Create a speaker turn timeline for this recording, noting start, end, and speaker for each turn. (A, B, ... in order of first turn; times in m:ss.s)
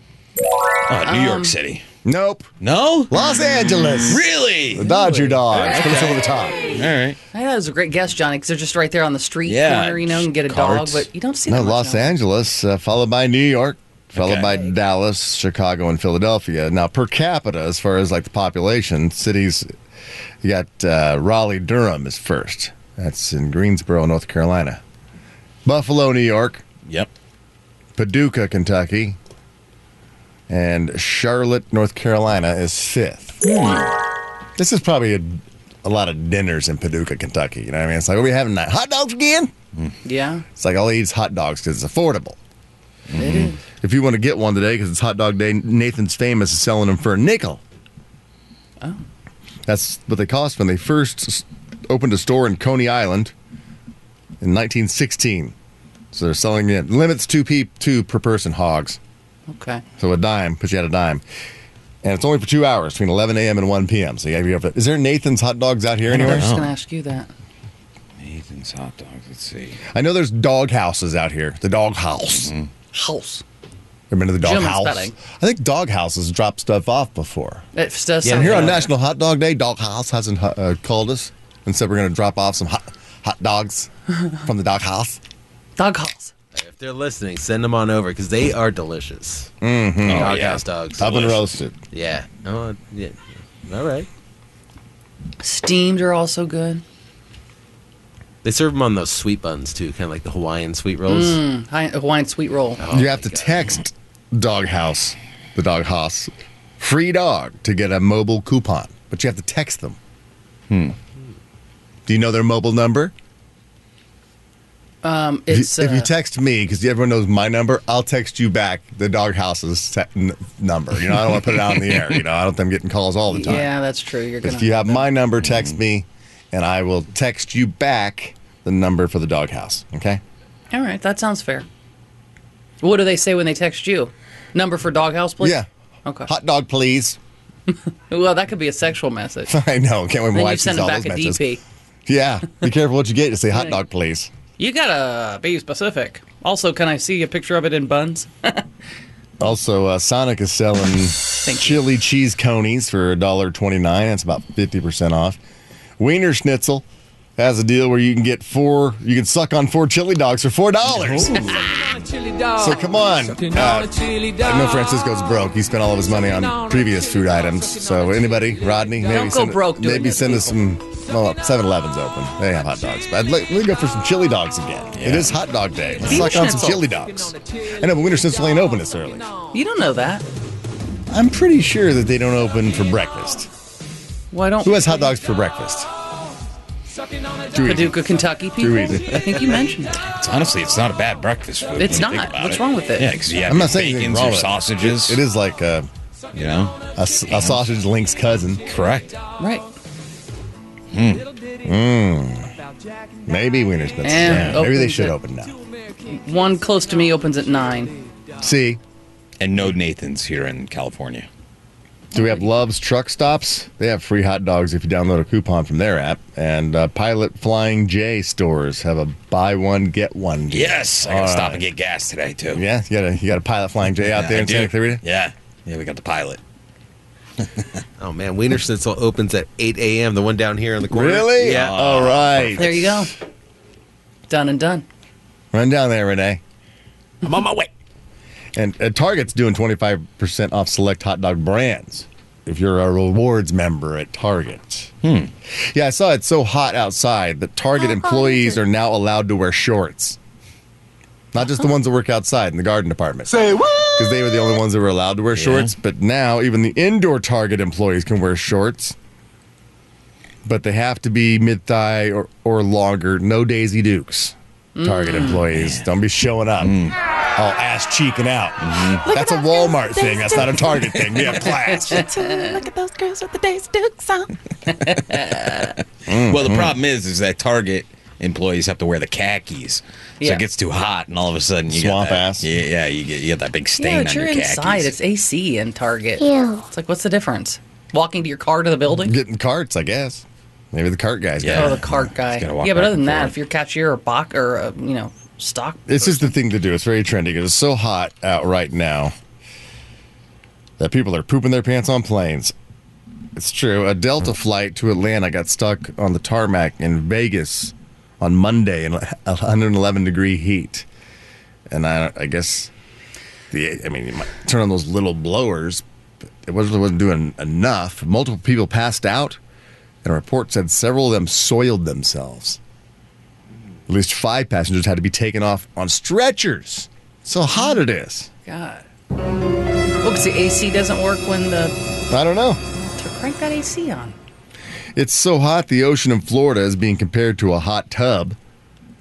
0:00.9-0:01.8 A
0:01.0-0:01.5 B
0:02.0-0:02.5 C
0:02.6-0:03.1 A
0:03.1-0:06.7 C
0:04.1-0:04.9 A
0:04.8-0:05.8 B
0:06.8-0:07.2 A
0:07.3-0:12.1 B
0:09.5-0:11.1 A
0:11.5-0:19.7 C
0:14.1-0:14.6 A
0:20.4-0:24.8 C
0:25.6-0:26.6 C
0:28.0-0:29.2 C
0:30.5-0:33.4 C
0:33.4-0:33.9 A
0:34.6-0:39.5 C
0:40.0-0:40.4 B
0:40.6-0:42.4 C
0:43.1-0:43.5 A
0:43.2-0:43.6 B
0:43.8-0:47.6 C
0:49.7-0:53.3 C
0:54.4-0:55.6 C
0:56.1-0:59.0 C
0:59.5-0:59.8 B
1:00.0-1:01.2 C
1:02.0-1:06.5 C
1:06.1-1:07.3 B
1:06.1-1:06.7 A
1:08.2-1:09.8 A
1:09.9-1:12.5 C
1:12.4-1:12.7 A
1:12.9-1:13.4 B
1:14.1-1:17.7 C
1:14.4-1:15.2 B
1:17.8-1:18.9 B
1:18.2-1:18.9 D
1:18.2-1:23.9 C
1:24.4-1:25.2 C
1:25.8-1:26.3 B
1:26.5-1:29.5 D
1:29.6-1:31.8 C
1:30.0-1:31.2 A
1:30.1-1:34.1 D
1:35.4-1:36.8 B
1:38.4-1:41.4 D
1:41.1-1:42.9 B
1:42.8-1:43.5 D
1:42.9-1:50.0 C
1:50.7-1:51.0 A
1:52.1-1:53.1 C
1:55.0-1:56.1 B
1:55.5-2:03.7 C
2:03.3-2:05.1 B
2:04.4-2:10.2 C
2:10.7-2:11.7 B
2:12.8-2:16.3 B
2:15.4-2:15.7 C
2:16.3-2:17.2 C
2:17.7-2:19.5 B
2:19.5-2:21.4 C
2:20.3-2:21.6 B
2:22.1-2:24.3 C
2:23.5-2:23.8 B
2:24.6-2:28.6 B
2:29.4-2:35.4 C
2:31.4-2:31.8 B
2:36.0-2:36.8 C
2:37.4-2:41.7 C
2:40.9-2:41.6 A
2:42.4-2:59.3 C
2:49.0-2:50.6 B
2:55.0-2:55.3 A
2:56.0-2:56.9 B
2:59.5-3:00.2 B
3:01.1-3:03.5 C
3:04.3-3:05.0 B
3:04.6-3:05.9 C
3:07.5-3:08.0 C
3:07.6-3:10.0 B
3:08.6-3:09.3 C
3:10.0-3:15.2 A
3:11.8-3:13.2 B
3:13.4-3:15.9 C
3:16.3-3:17.7 A
3:17.0-3:18.7 C
3:18.7-3:19.2 A
3:19.4-3:19.7 B
3:20.9-3:21.3 A
3:21.6-3:22.5 C
3:23.2-3:25.6 C
3:24.0-3:25.2 B
3:24.2-3:24.6 A
3:26.0-3:28.0 B
3:28.4-3:28.8 C
3:29.4-3:31.3 A
3:32.1-3:41.6 C
3:40.5-3:42.6 A
3:42.5-3:45.0 C
3:44.1-3:46.4 A
3:48.0-3:52.1 D
3:50.9-3:53.1 C
3:51.4-3:52.6 A
3:52.5-3:53.1 B
3:54.3-3:54.9 B
3:55.5-3:56.4 C
3:57.3-3:57.6 A
3:58.6-4:04.9 C
4:05.0-4:05.3 A
4:05.6-4:10.2 C
4:11.3-4:19.0 C
4:15.4-4:15.7 A
4:20.4-4:26.8 C
4:24.8-4:25.4 B
4:25.4-4:25.8 A
4:26.6-4:27.0 A
4:27.4-4:32.1 C
4:28.6-4:29.1 A
4:29.1-4:34.3 E
4:31.7-4:32.6 B
4:34.7-4:35.7 B
4:36.1-4:36.8 C
4:36.3-4:44.9 A
4:41.7-4:42.5 C
4:43.8-4:49.1 B
4:48.9-4:52.0 C
4:51.4-4:53.4 A
4:51.5-4:56.4 B
4:55.9-4:59.2 C
5:00.8-5:02.5 C
5:03.4-5:10.9 C
5:11.7-5:12.7 C
5:13.5-5:15.8 C
5:16.4-5:19.4 C
5:20.0-5:22.6 C
5:23.9-5:28.3 C
5:28.5-5:28.8 B
5:30.0-5:31.8 B
5:32.1-5:32.6 C
5:32.8-5:34.2 B
5:35.0-5:38.4 C